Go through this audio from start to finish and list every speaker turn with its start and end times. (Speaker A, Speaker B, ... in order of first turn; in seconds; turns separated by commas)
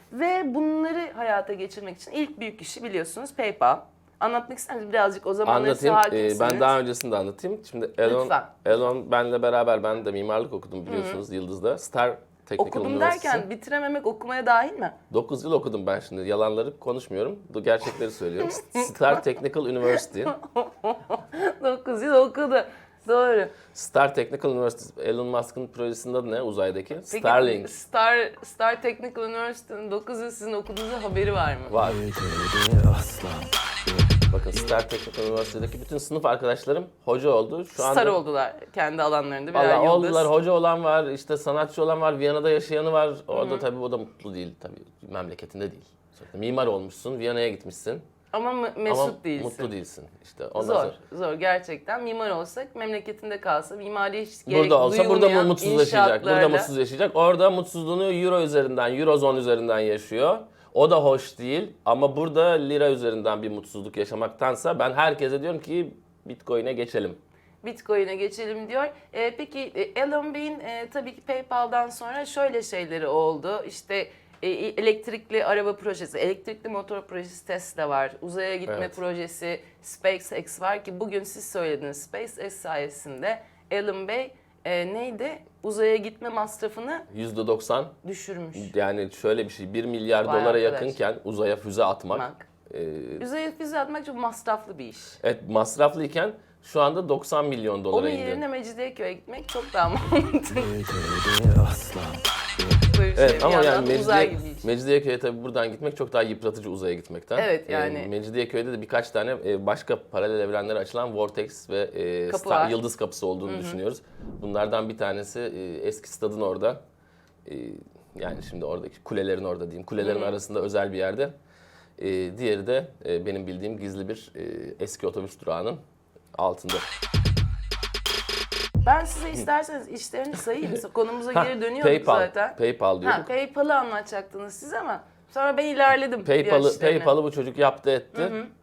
Speaker A: 0.1-6.7, Speaker B: 5.4-13.4, Speaker A: 8.0-8.6, Speaker A: 10.8-11.2, Speaker A: 12.6-15.0, Speaker B: 15.1-20.3, Speaker A: 18.4-19.2, Speaker A: 20.0-23.6, Speaker B: 23.7-27.7, Speaker A: 27.1-31.8, Speaker B: 31.7-32.0, Speaker C: 31.8-34.1, Speaker B: 34.3-38.2, Speaker A: 37.7-40.3, Speaker B: 39.5-48.0, Speaker A: 43.3-43.6, Speaker A: 48.3-49.7, Speaker B: 48.9-51.0, Speaker A: 50.5-56.7, Speaker B: 54.5-67.2, Speaker A: 67.6-87.1, Speaker B: 78.7-79.0, Speaker B: 87.1-87.9, Speaker A: 88.0-88.7, Speaker B: 88.5-93.2, Speaker A: 90.2-91.0, Speaker A: 92.1-92.5, Speaker A: 93.2-95.2, Speaker B: 95.2-98.4, Speaker A: 97.9-100.7, Speaker C: 100.5-102.9, Speaker A: 102.9-104.7, Speaker B: 103.1-116.8, Speaker A: 107.3-108.1, Speaker A: 112.3-112.8, Speaker A: 113.4-113.8, Speaker B: 117.4-121.3, Speaker A: 120.0-120.3, Speaker B: 122.0-125.8, Speaker B: 126.3-126.8, Speaker A: 128.8-137.1, Speaker B: 131.3-133.3, Speaker B: 136.2-138.4, Speaker A: 138.1-138.5